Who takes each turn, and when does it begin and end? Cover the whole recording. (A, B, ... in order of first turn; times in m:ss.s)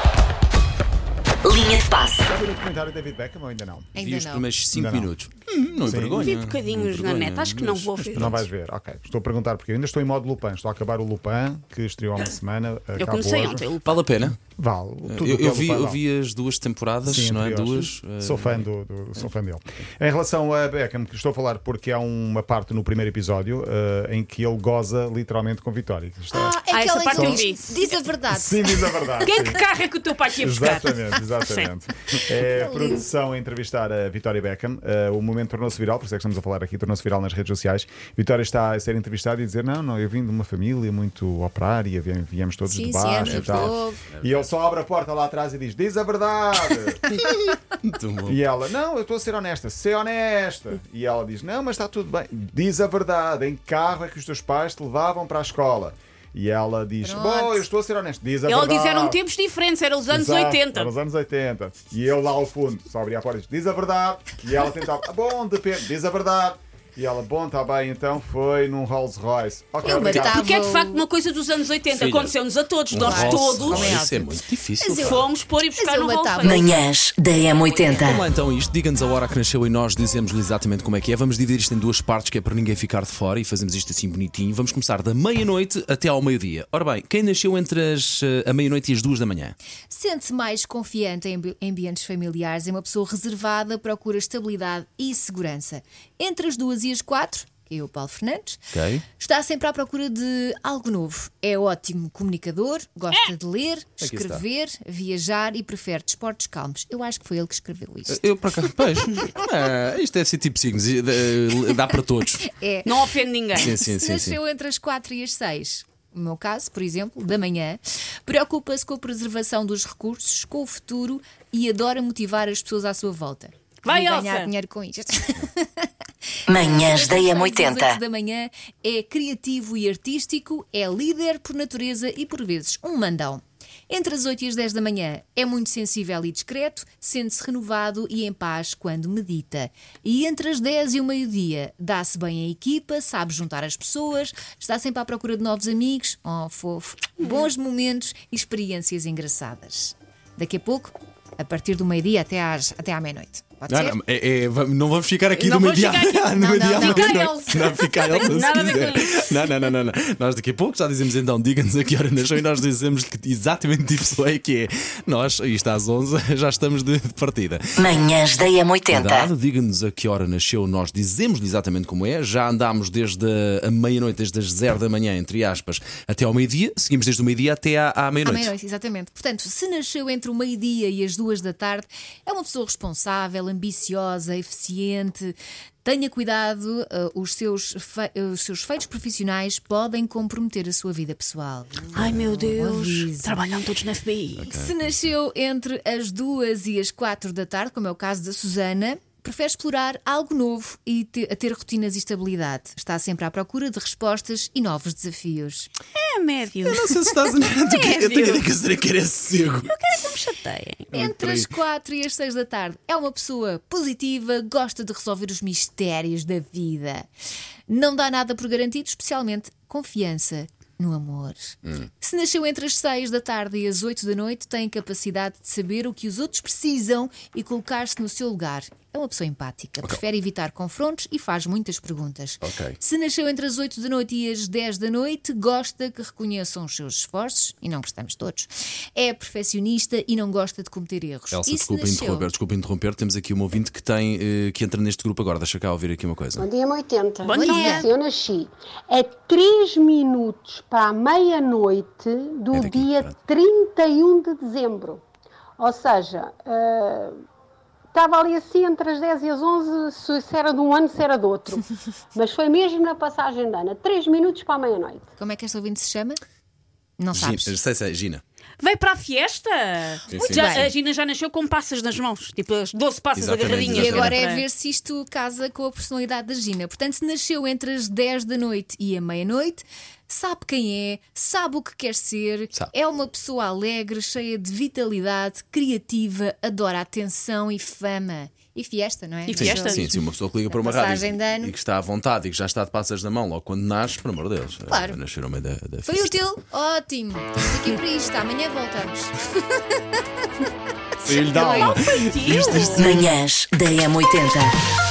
0:01.4-0:02.2 A
0:02.3-0:03.9 B
0:03.9-0:04.5 C
0:04.0-0:08.4 D
0:04.7-0:05.1 B
0:05.8-0:06.4 B
0:06.2-0:08.4 E
0:08.1-0:13.7 B
0:13.0-0:14.0 E
0:13.8-0:14.4 D
0:14.3-0:16.0 B
0:15.1-0:18.7 D
0:17.0-0:26.6 B
0:26.3-0:29.1 C
0:26.7-0:27.6 E
0:27.1-0:27.6 B
0:28.3-0:29.6 B
0:29.2-0:31.7 E
0:30.4-0:47.0 B
0:32.4-0:33.1 C
0:42.7-0:44.0 C
0:43.2-0:44.5 D
0:47.2-0:48.4 D
0:48.3-0:59.2 B
0:57.0-0:57.6 C
0:58.5-1:00.9 E
1:00.1-1:10.4 B
1:09.8-1:11.1 C
1:09.8-1:14.0 E
1:11.9-1:12.3 D
1:12.9-1:15.3 D
1:13.0-1:16.7 C
1:14.8-1:16.8 E
1:16.4-1:18.3 A
1:18.0-1:29.6 D
1:29.9-1:48.3 C
1:38.7-1:39.0 D
1:44.0-1:44.4 D
1:48.1-1:52.4 D
1:52.4-1:52.9 C
1:52.8-1:53.7 E
1:53.6-1:54.4 D
1:53.7-2:05.9 C
2:03.8-2:04.5 E
2:06.5-2:08.0 A
2:06.5-2:34.0 C
2:33.7-2:48.0 D
2:35.4-2:39.2 E
2:36.3-2:37.8 C
2:47.8-2:49.3 A
2:48.9-2:58.5 D
2:58.2-3:13.4 C
3:11.9-3:14.4 E
3:14.4-3:15.0 D
3:14.4-3:25.7 C
3:26.0-3:28.5 E
3:26.6-3:29.7 D
3:29.6-3:30.9 E
3:30.9-3:31.5 D
3:30.9-3:37.1 C
3:37.7-4:02.3 C
3:52.4-3:52.8 D
4:01.3-4:06.5 D
4:06.4-4:15.0 F
4:07.2-4:07.9 E
4:07.3-4:07.9 C
4:12.5-4:13.2 D
4:15.6-4:17.2 F
4:17.9-4:25.1 F
4:25.2-4:26.2 C
4:27.0-4:27.6 C
4:27.1-4:28.2 D
4:28.6-4:34.4 E
4:30.1-4:30.7 D
4:30.3-4:30.7 C
4:33.2-4:34.2 D
4:33.7-4:51.6 C
4:49.3-4:49.9 E
4:49.4-4:56.1 D
4:54.7-4:55.0 C
4:55.9-4:59.8 C
5:01.0-5:01.7 C
5:01.0-5:03.0 D
5:01.5-5:03.0 E
5:02.8-5:04.5 A